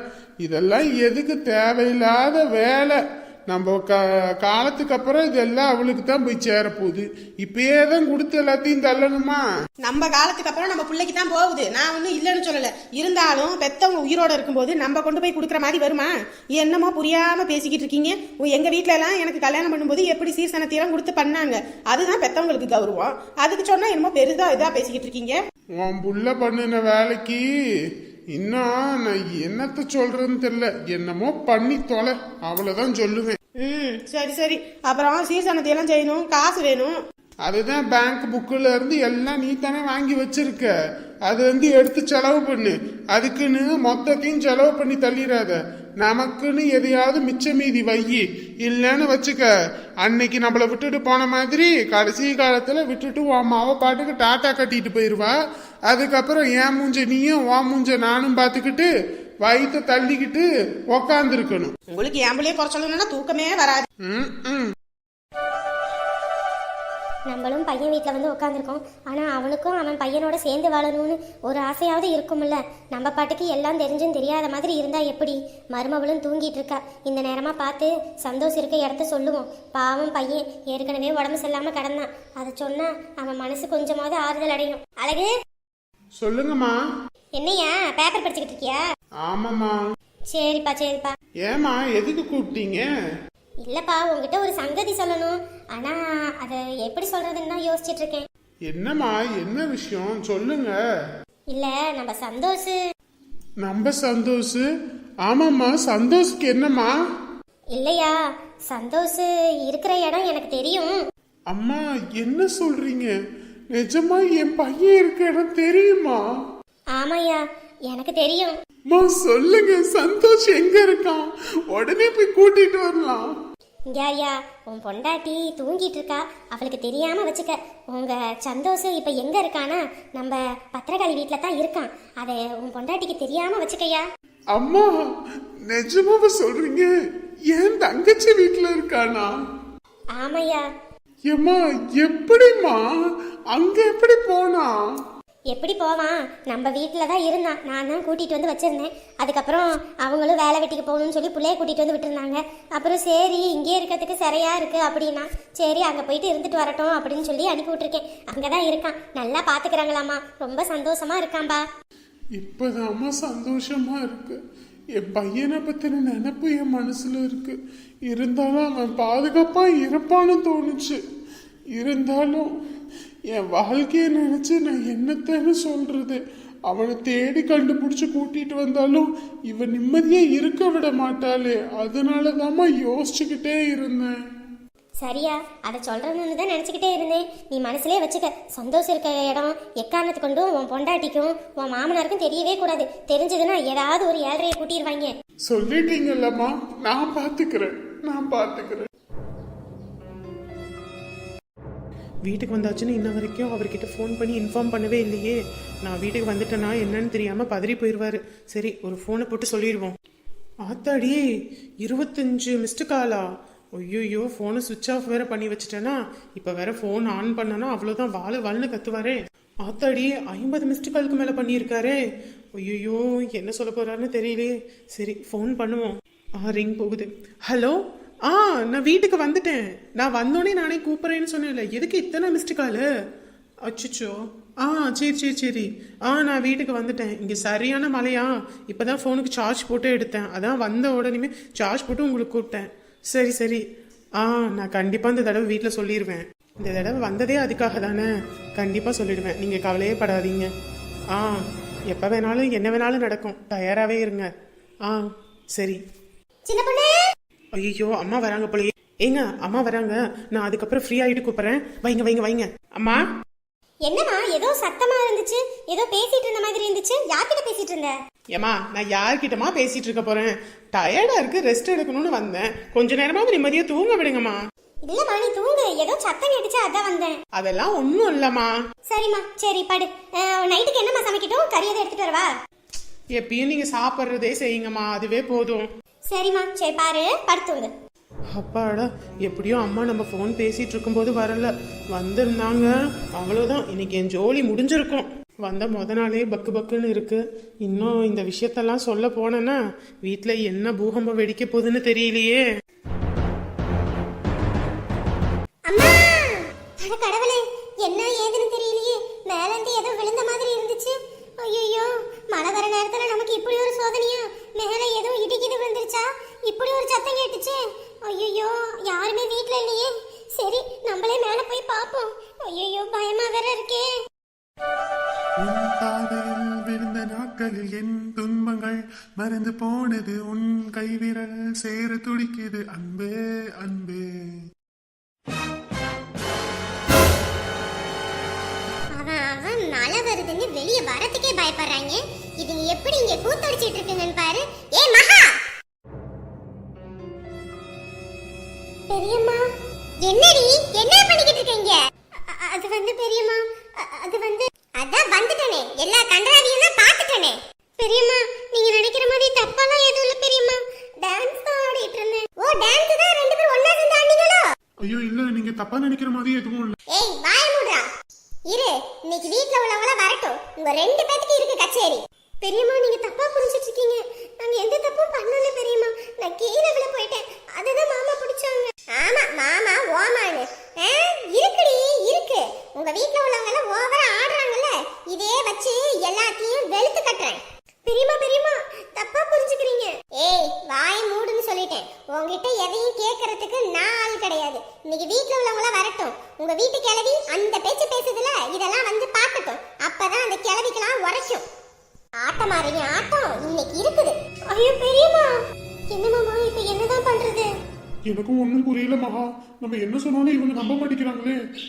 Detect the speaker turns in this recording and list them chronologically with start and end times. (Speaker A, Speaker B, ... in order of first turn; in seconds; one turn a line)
Speaker A: 0.4-9.4
Speaker B: 9.9-25.4
Speaker A: 25.8-27.4
Speaker A: 28.4-33.4
Speaker B: 33.6-37.0
Speaker A: 37.5-40.7
Speaker A: 41.3-49.5
Speaker A: 50.0-55.4
Speaker A: 55.9-58.9
Speaker A: 59.4-61.7
Speaker B: 61.9-63.9
Speaker A: 64.0-64.8
Speaker C: 67.3-85.3
Speaker A: 86.2-86.8
Speaker C: 87.4-88.8
Speaker A: 89.2-89.8
Speaker C: 90.3-91.2
Speaker A: 91.4-92.9
Speaker C: 93.6-98.3
Speaker A: 98.7-100.8
Speaker C: 101.5-102.8
Speaker A: 103.6-104.6
Speaker A: 105.3-106.9
Speaker C: 107.7-108.1
Speaker C: 108.7-111.0
Speaker A: 111.5-113.1
Speaker A: 113.7-116.2
Speaker C: 117.0-118.5
Speaker A: 118.9-123.3
Speaker C: 123.9-134.0
Speaker A: 134.5-134.9
Speaker A: 135.7-136.9
Speaker A: 137.5-139.3
Speaker C: 140.2-140.6
Speaker A: 141.3-142.8
Speaker A: 143.5-144.7
Speaker C: 145.5-161.6
Speaker A: 162.4-164.4
Speaker A: 165.0-167.6
Speaker A: 168.1-171.0
Speaker A: 171.8-172.5
Speaker A: 173.3-184.1
Speaker C: 185.0-195.1
Speaker A: 195.5-198.9
Speaker B: 202.3-209.9
Speaker B: 210.7-211.2
Speaker B: 211.8-213.3
Speaker B: 213.8-222.0
Speaker B: 222.6-227.8
Speaker B: 228.3-232.8
Speaker B: 233.7-243.6
Speaker B: 244.2-248.1
Speaker B: 248.6-250.5
Speaker B: 251.9-254.3
Speaker C: 256.5-256.9
Speaker B: 257.6-263.0
Speaker C: 263.9-267.9
Speaker B: 268.4-274.4
Speaker C: 274.9-277.2
Speaker B: 277.4-278.5
Speaker C: 278.9-282.3
Speaker B: 283.2-285.7
Speaker C: 286.1-287.7
Speaker B: 288.4-302.4
Speaker C: 305.7-323.9
Speaker A: 325.4-334.0
Speaker C: 338.9-345.3
Speaker C: 348.9-349.4
Speaker C: 350.0-364.4
Speaker A: 364.8-366.8
Speaker C: 366.9-367.8
Speaker C: 368.5-401.4
Speaker C: 402.2-405.4
Speaker C: 405.9-407.5
Speaker A: 408.1-411.4